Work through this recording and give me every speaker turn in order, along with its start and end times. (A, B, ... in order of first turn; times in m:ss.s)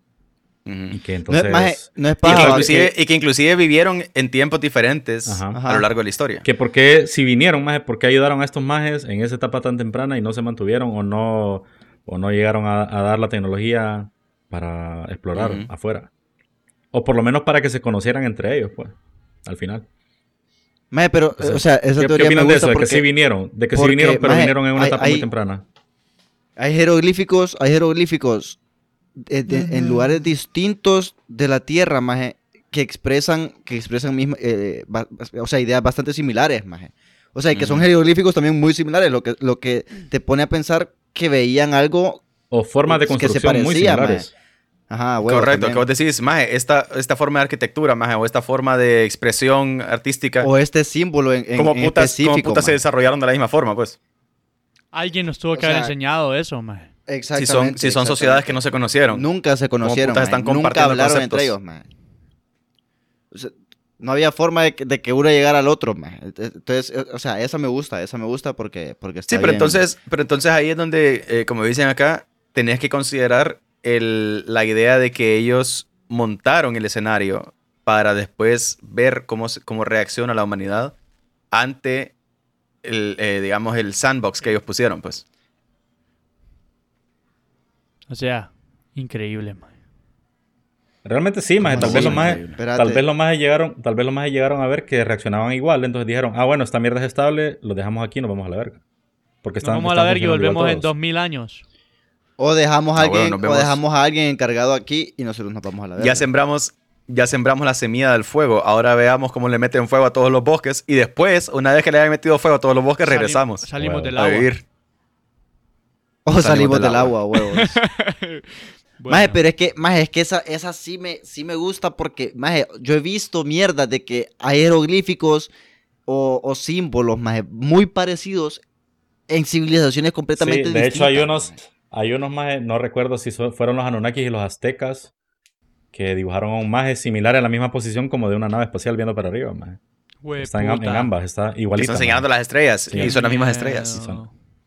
0:00.7-0:01.0 A
0:00.9-0:02.8 B
0:01.3-0:02.9 C
0:02.2-0:06.4 A
0:05.3-0:05.6 B
0:05.5-0:05.9 C
0:06.4-0:16.1 B
0:15.4-0:15.7 A
0:16.9-0:19.9 B
0:20.9-0:23.0 C
0:21.4-0:25.6 B
0:23.7-0:25.3 C
0:26.6-0:28.6 C
0:29.2-0:42.2 C
0:37.5-0:37.8 A
0:42.5-0:44.3 B
0:42.9-0:44.3 C
0:44.9-0:45.8 C
0:45.2-0:50.5 A
0:50.4-0:52.8 C
0:51.6-0:54.0 A
0:54.9-0:56.9 D
0:55.5-0:55.9 C
0:57.1-1:01.9 C
0:57.4-0:59.2 A
0:59.8-1:01.5 A
1:03.3-1:09.8 C
1:09.3-1:20.9 A
1:21.5-1:22.1 A
1:22.8-1:25.2 A
1:28.1-1:29.7 D
1:31.0-1:38.8 B
1:31.6-1:32.6 A
1:31.7-1:33.0 C
1:39.4-1:40.9 B
1:39.6-1:41.6 D
1:42.4-1:46.3 C
1:43.0-1:43.8 A
1:46.0-1:54.6 A
1:53.0-1:54.5 D
1:53.8-1:54.2 B
1:56.3-1:57.8 C
1:56.4-1:57.2 A
1:57.4-1:59.4 D
1:59.1-2:05.5 C
2:06.1-2:08.6 C
2:09.3-2:11.6 C
2:10.4-2:15.1 B
2:15.9-2:19.8 B
2:20.2-2:21.1 D
2:20.4-2:22.3 B
2:21.8-2:24.0 A
2:22.9-2:23.2 B
2:22.9-2:24.3 D
2:24.0-2:24.2 B